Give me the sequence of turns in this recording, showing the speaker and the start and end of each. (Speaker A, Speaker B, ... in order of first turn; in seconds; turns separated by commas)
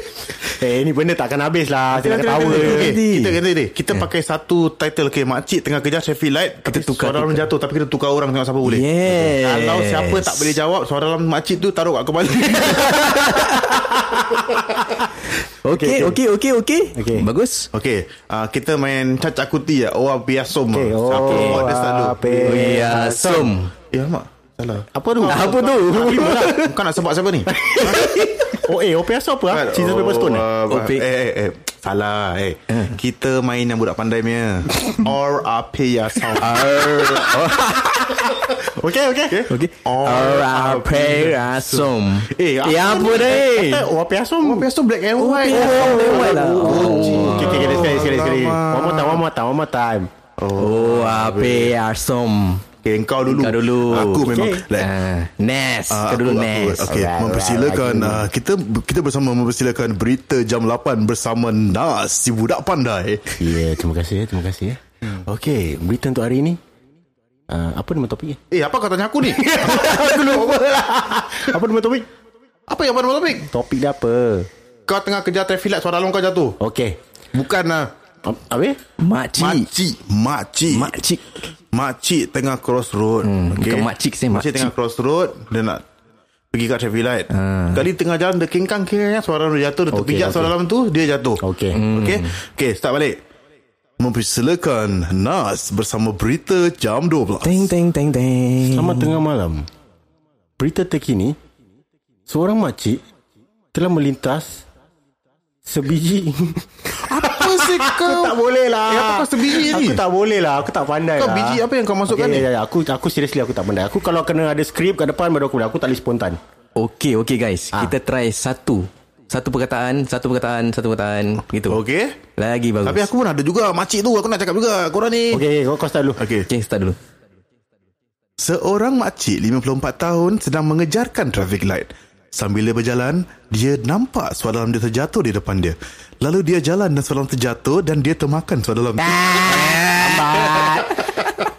Speaker A: 0.4-2.9, Speaker B: 1.9-13.7, Speaker C: 2.3-3.4, Speaker C: 6.7-7.5, Speaker C: 8.6-10.6, Speaker C: 12.7-13.7, Speaker A: 13.7-15.1, Speaker C: 15.6-17.7, Speaker A: 15.7-16.2, Speaker A: 16.9-17.3, Speaker B: 17.7-22.4, Speaker A: 20.7-23.5, Speaker C: 21.2-21.7, Speaker C: 22.3-23.7, Speaker B: 23.9-25.4, Speaker A: 24.9-26.7, Speaker C: 25.3-26.8, Speaker B: 26.5-28.2, Speaker A: 27.5-30.5, Speaker C: 27.8-28.5, Speaker B: 29.5-37.6, Speaker C: 30.7-31.0, Speaker C: 32.7-33.0, Speaker C: 36.4-37.9, Speaker A: 37.0-39.5, Speaker B: 39.3-43.3, Speaker C: 39.5-43.9, Speaker A: 42.9-44.7, Speaker B: 44.4-49.2, Speaker C: 45.2-48.0, Speaker A: 45.5-50.1, Speaker B: 50.4-51.7, Speaker C: 50.6-52.6, Speaker B: 52.8-54.9, Speaker C: 53.3-56.9, Speaker A: 54.0-54.6, Speaker B: 55.9-63.5, Speaker A: 56.9-58.3, Speaker A: 63.4-66.6, Speaker A: 67.5-68.4, Speaker B: 68.5-70.8, Speaker A: 69.2-72.1, Speaker B: 72.7-73.5, Speaker A: 73.5-74.5, Speaker B: 74.9-76.6, Speaker A: 76.6-76.9, Speaker B: 77.3-77.9, Speaker A: 78.2-78.8, Speaker C: 79.0-79.7, Speaker B: 79.4-81.0, Speaker C: 80.7-81.3, Speaker B: 81.7-85.8, Speaker C: 83.2-84.7, Speaker B: 86.5-93.2, Speaker C: 87.3-87.8, Speaker A: 89.9-90.5, Speaker A: 91.4-91.8, Speaker C: 91.7-92.3, Speaker B: 94.0-97.7, Speaker C: 97.4-99.2, Speaker A: 98.6-99.7, Speaker A: 100.6-101.4, Speaker A: 102.3-103.0, Speaker A: 103.7-104.6, Speaker A: 105.6-116.4, Speaker B: 106.9-110.0, Speaker B: 111.2-112.5, Speaker C: 116.8-121.8, Speaker B: 121.7-122.2, Speaker C: 122.4-123.1, Speaker B: 122.8-125.4, Speaker A: 125.3-126.2, Speaker B: 126.2-126.5, Speaker C: 126.5-127.0, Speaker B: 128.4-139.9, Speaker A: 139.1-141.1, Speaker C: 139.6-140.8